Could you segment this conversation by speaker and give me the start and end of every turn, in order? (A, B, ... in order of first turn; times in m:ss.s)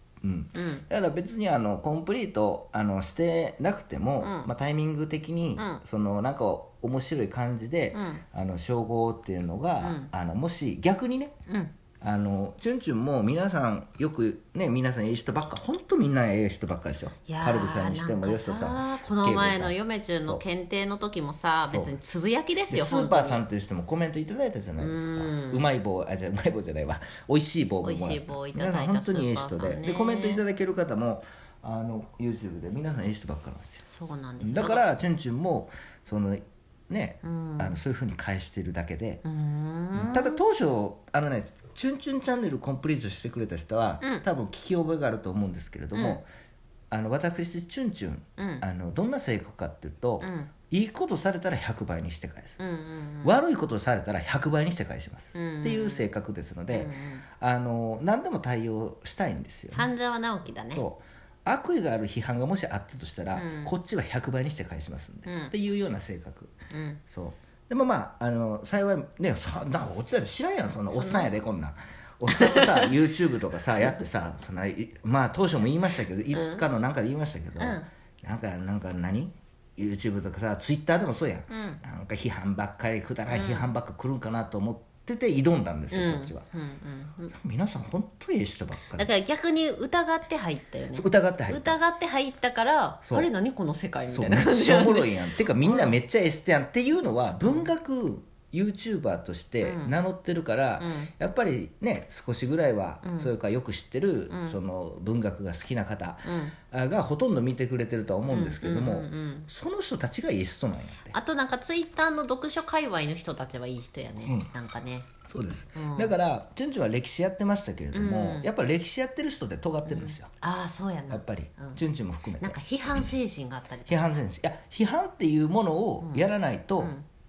0:00.2-0:11.3 A
0:00.5-0:00.8 B
0:04.2-0:04.5 B
0:05.6-0:05.8 B
0:07.9-0:08.2 B
0:09.8-0:10.1 B
0:11.5-0:11.7 B
0:12.0-0:20.4 A
0:17.3-0:23.4 B
0:21.7-0:21.9 A
0:22.7-0:33.8 A
0:24.8-0:25.7 B
0:27.8-0:30.4 B
0:33.9-0:34.9 B
0:34.4-0:39.2 A
0:37.2-0:37.8 B
0:39.2-0:40.4 B
0:39.9-0:46.3 A
0:45.9-0:46.2 B
0:46.9-0:52.6 A
0:48.4-0:48.6 B
0:50.2-0:50.5 B
0:52.6-0:53.4 B
0:53.2-0:59.8 A
0:55.3-0:56.1 B
0:56.7-0:57.2 B
0:59.7-1:00.8 B
1:00.7-1:06.5 A
1:03.3-1:03.7 B
1:05.2-1:05.5 B
1:06.7-1:07.0 B
1:07.1-1:26.4 A
1:10.9-1:11.3 B
1:12.3-1:13.0 B
1:16.3-1:16.6 B
1:17.6-1:17.9 B
1:21.5-1:21.8 B
1:23.3-1:23.7 B
1:25.9-1:27.3 B
1:27.3-1:29.1 A
1:28.9-1:36.0 B
1:30.9-1:31.8 A
1:34.1-1:51.1 A
1:39.6-1:39.9 B
1:40.8-1:41.1 B
1:43.0-1:43.3 B
1:44.3-1:44.6 B
1:46.2-1:46.5 B
1:48.3-1:49.5 B
1:51.1-1:55.1 B
1:55.3-2:00.3 A
1:55.7-1:56.1 B
1:57.9-1:58.5 B
1:59.8-2:01.8 B
2:01.1-2:03.1 A
2:02.4-2:04.2 B
2:03.9-2:06.9 A
2:06.0-2:07.0 B